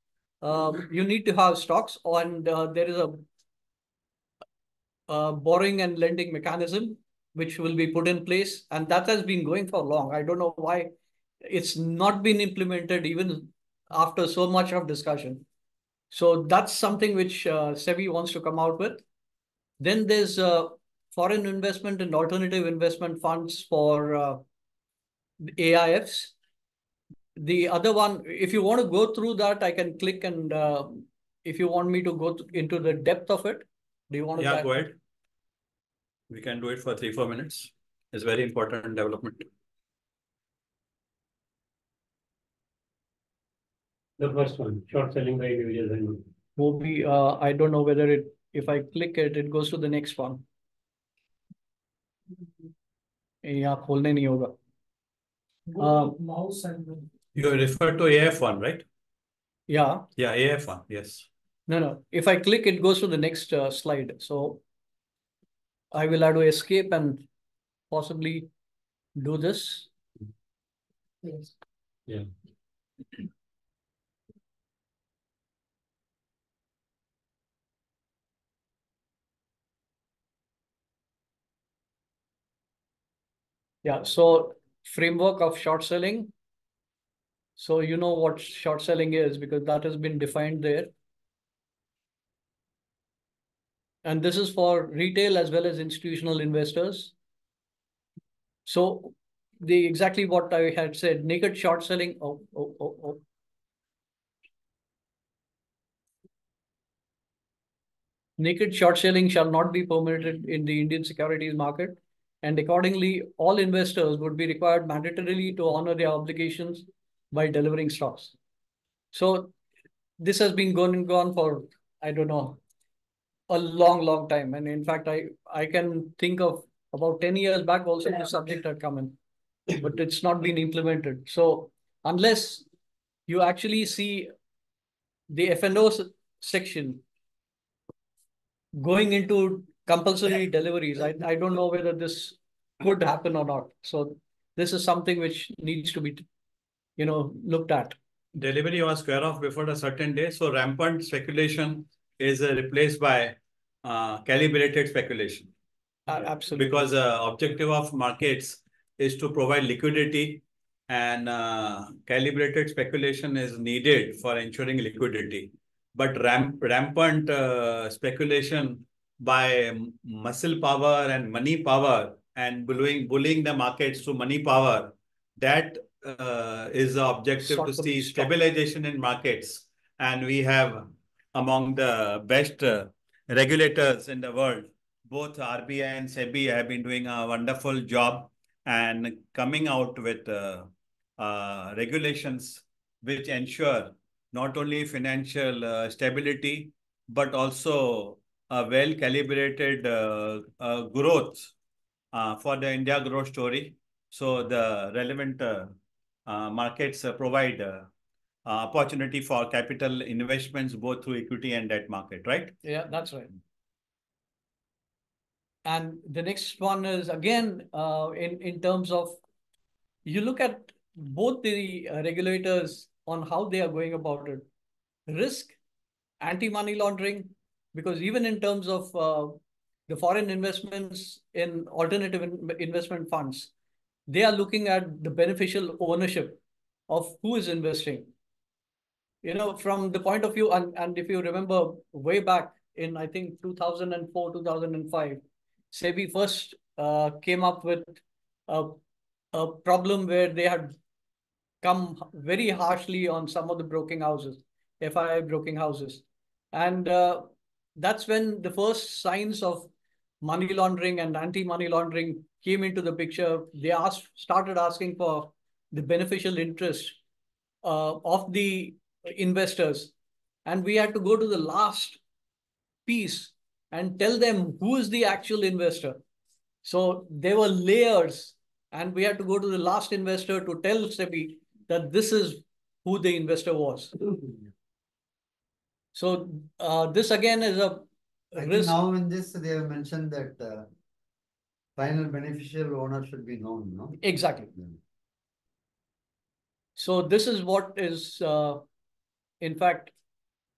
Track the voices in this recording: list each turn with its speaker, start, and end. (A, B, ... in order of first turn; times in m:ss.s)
0:00.4-0:03.2 A
0:05.1-0:15.4 A
0:16.1-0:19.0 A
0:19.8-0:24.4 A
0:25.5-0:26.4 A
0:27.4-0:34.9 A
0:34.4-0:35.0 B
0:36.3-0:39.5 B
0:44.2-0:46.2 C
0:46.6-0:50.4 A
0:53.4-0:54.5 A
0:55.8-0:56.4 A
0:57.4-0:58.8 B
0:59.7-1:00.1 A
1:00.2-1:01.3 B
1:01.7-1:04.6 A
1:05.9-1:07.3 A
1:07.9-1:08.5 A
1:09.2-1:09.9 A
1:23.8-1:26.3 A
1:27.6-1:30.9 A
1:34.0-1:37.1 A
1:38.7-1:43.2 A
1:48.4-1:58.3 A
1:59.1-1:59.5 A
2:00.2-2:02.6 A
2:03.5-2:09.2 A
2:09.8-2:12.7 A
2:13.3-2:14.3 A
2:15.3-2:17.0 A
2:18.8-2:26.2 A
2:27.0-2:28.0 A
2:28.4-2:35.5 B
2:36.1-2:36.9 A
2:36.5-3:21.5 B
2:57.4-2:58.3 A
3:22.1-3:25.7 B
3:26.3-3:27.9 B
3:28.4-3:32.6 B
3:32.6-3:33.3 A
3:35.7-3:39.2 A
3:40.0-3:44.5 A
3:45.1-3:45.6 A
3:46.2-3:49.4 A
3:49.9-3:53.5 A
3:54.1-3:58.1 A
3:59.2-4:08.8 A
4:09.3-4:10.8 A
4:11.6-4:19.7 A
4:20.2-4:27.0 A
4:27.6-4:29.9 A
4:30.4-4:32.0 A
4:32.9-4:36.0 A
4:36.6-4:44.0 A
4:45.9-4:48.8 A
4:48.4-4:50.7 D
4:51.8-4:54.0 D
4:54.0-4:54.5 A
4:54.5-4:54.8 D
4:56.8-4:58.6 A
4:59.4-4:59.9 A